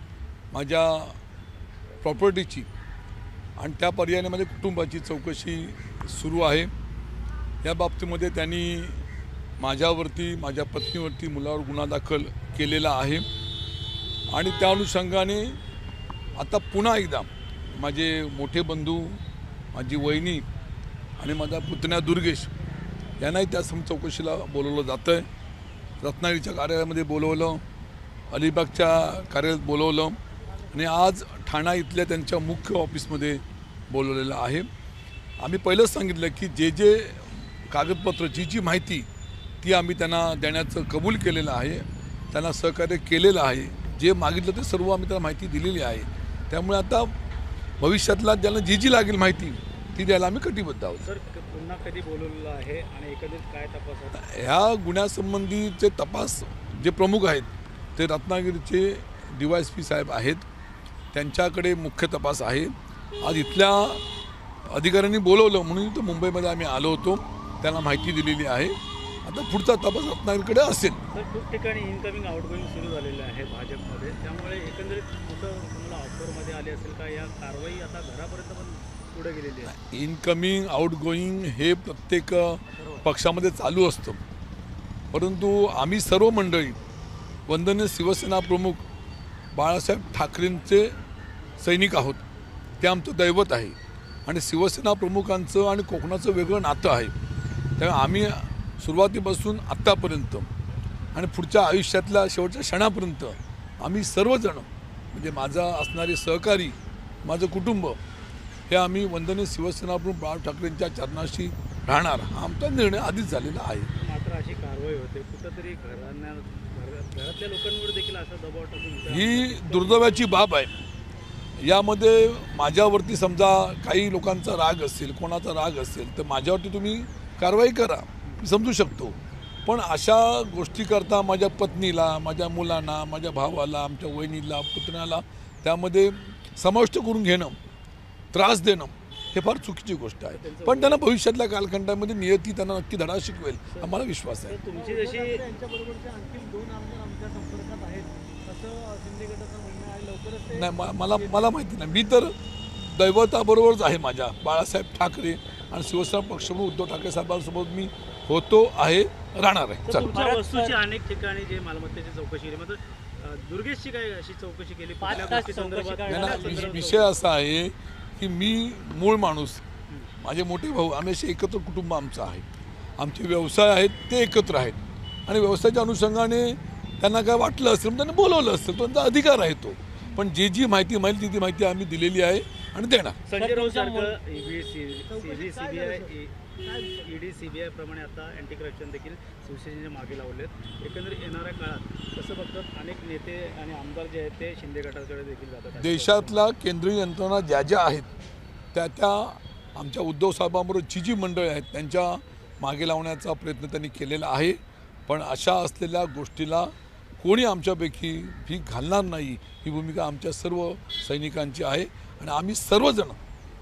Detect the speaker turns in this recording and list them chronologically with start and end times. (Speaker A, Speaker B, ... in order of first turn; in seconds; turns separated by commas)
Speaker A: 0.5-1.2, Speaker A: 2.0-2.7, Speaker A: 3.6-6.7, Speaker A: 7.6-9.0, Speaker A: 9.6-13.2, Speaker A: 14.3-15.6, Speaker A: 16.4-19.2, Speaker A: 19.7-20.4, Speaker A: 21.2-22.5, Speaker A: 23.2-25.2, Speaker A: 26.0-27.6, Speaker A: 28.3-30.2, Speaker A: 30.7-34.7, Speaker A: 35.4-39.1, Speaker A: 39.6-47.1, Speaker A: 47.8-51.0, Speaker B: 51.0-54.4, Speaker A: 54.1-60.4, Speaker A: 61.1-64.0, Speaker A: 64.7-71.0, Speaker B: 71.1-79.7, Speaker A: 79.6-84.2, Speaker A: 85.1-86.8, Speaker A: 87.5-88.8, Speaker A: 89.5-90.9, Speaker A: 91.6-92.2, Speaker A: 92.8-97.1, Speaker A: 97.8-100.5, Speaker A: 101.1-108.0, Speaker A: 108.7-113.9, Speaker B: 114.0-120.3, Speaker A: 119.1-120.7, Speaker A: 121.6-137.6, Speaker A: 138.3-144.6, Speaker B: 140.3-141.0, Speaker B: 143.8-145.4, Speaker C: 144.7-151.6, Speaker A: 150.5-160.0, Speaker B: 159.8-167.2, Speaker C: 159.9-160.8, Speaker C: 165.0-166.8, Speaker A: 166.1-169.6, Speaker A: 170.2-172.4, Speaker A: 173.0-183.2, Speaker B: 183.3-196.4, Speaker C: 183.3-184.1, Speaker C: 185.1-186.1, Speaker A: 195.8-198.1, Speaker A: 198.7-213.2